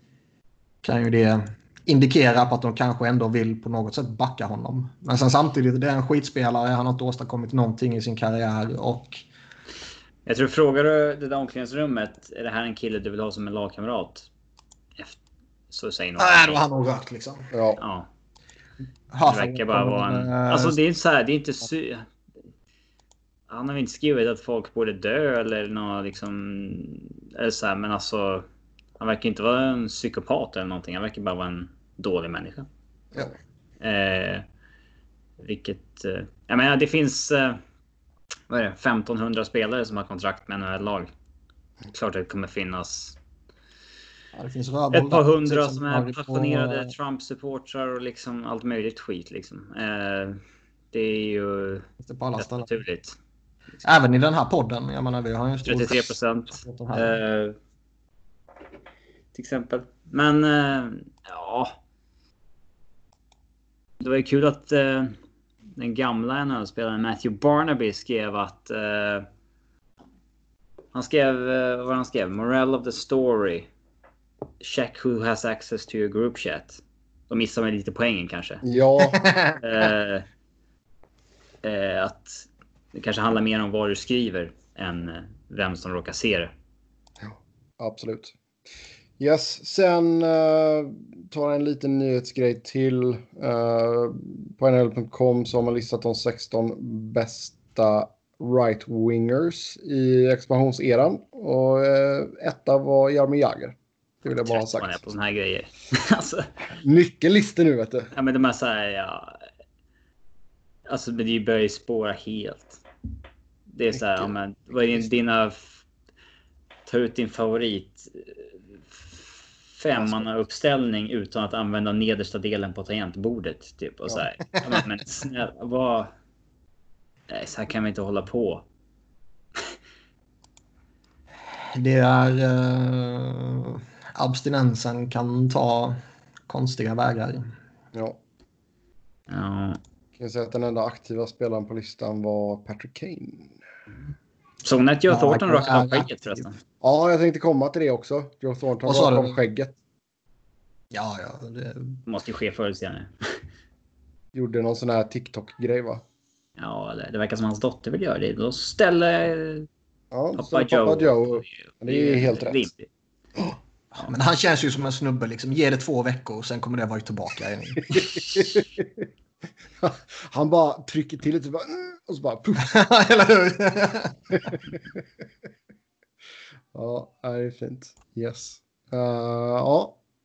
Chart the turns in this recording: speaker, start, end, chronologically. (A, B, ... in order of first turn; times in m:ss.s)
0:00.8-0:09.2 A
0:10.2-0:14.3 B
0:15.7-0:16.6 B
0:16.2-0:17.5 A
0:17.5-0:17.8 C
0:17.8-0:18.1 B
0:19.1-0:20.8 A
0:19.2-0:22.1 B
0:23.5-0:28.5 B
0:29.0-0:32.7 B
0:33.8-0:34.4 B
0:35.4-0:37.6 B
0:38.5-0:41.1 B
0:41.9-0:43.2 B
0:44.3-0:46.9 A
0:44.9-0:50.4 B
0:50.9-0:51.9 B
0:52.0-0:52.7 A
0:52.4-0:53.2 B
0:53.8-0:57.2 A
0:55.6-0:57.6 B
0:59.3-1:01.8 B
1:04.0-1:05.2 B
1:05.8-1:09.3 B
1:10.9-1:13.7 B
1:14.6-1:18.6 B
1:18.6-1:19.2 C
1:19.1-1:19.6 A
1:19.6-1:20.2 B
1:21.6-1:26.5 B
1:27.2-1:28.3 C
1:29.2-1:45.0 C
1:44.4-1:46.5 B
1:46.8-1:48.1 C
1:48.1-1:49.4 B
1:50.9-1:52.8 B
1:53.7-1:55.8 B
1:56.8-2:06.1 B
2:07.3-2:08.6 B
2:11.7-2:17.5 A
2:17.9-2:18.2 C
2:19.3-2:19.8 B
2:20.2-2:23.5 C
2:24.6-2:26.6 B
2:25.1-2:26.5 A
2:26.8-2:29.8 C
2:28.8-2:29.4 A
2:30.9-2:32.0 A
2:32.1-2:33.4 B
2:34.3-2:36.0 C
2:36.6-2:39.7 B
2:40.1-2:42.6 C
2:40.3-2:42.9 B
2:43.9-2:48.1 A
2:47.9-2:49.1 C
2:48.2-2:48.5 B
2:49.8-2:52.7 C
2:52.6-2:54.6 A
2:54.5-2:54.8 C
2:56.7-3:00.0 C